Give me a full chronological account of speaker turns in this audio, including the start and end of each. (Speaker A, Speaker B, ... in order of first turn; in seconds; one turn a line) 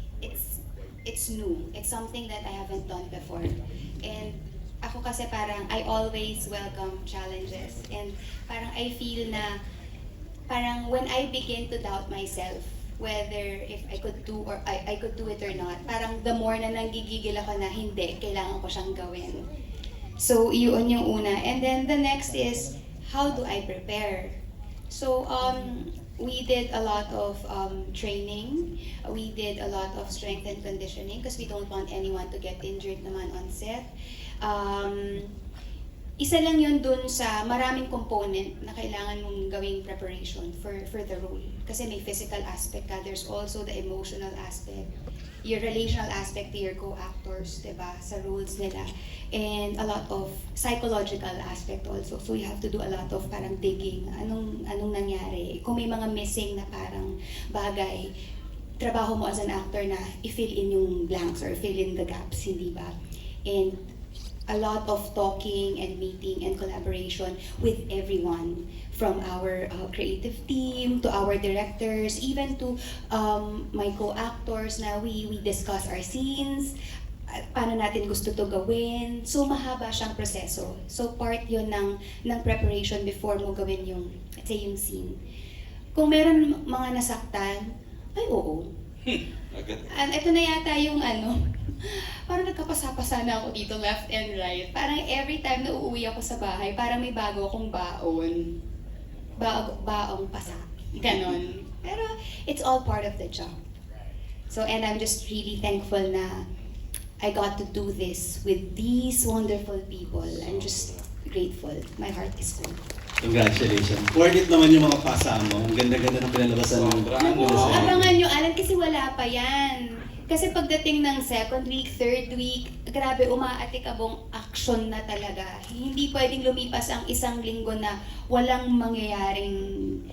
Speaker A: 0.2-3.5
Speaker A: 4.0-9.6
Speaker A: 10.5-19.4
Speaker A: 20.2-24.4
Speaker A: 24.9-33.9
Speaker A: 34.4-35.3
Speaker A: 36.2-44.9
Speaker A: 45.4-58.1
Speaker A: 58.8-62.9
Speaker A: 63.5-63.9
Speaker A: 64.5-76.7
Speaker A: 77.3-85.2
Speaker A: 86.0-88.7
Speaker B: 89.1-89.9
Speaker A: 89.9-98.6
Speaker A: 99.4-103.5
Speaker A: 104.5-106.5
Speaker A: 107.2-112.8
Speaker B: 110.3-111.0
Speaker C: 113.2-118.1
Speaker B: 116.7-118.0
Speaker A: 117.2-130.0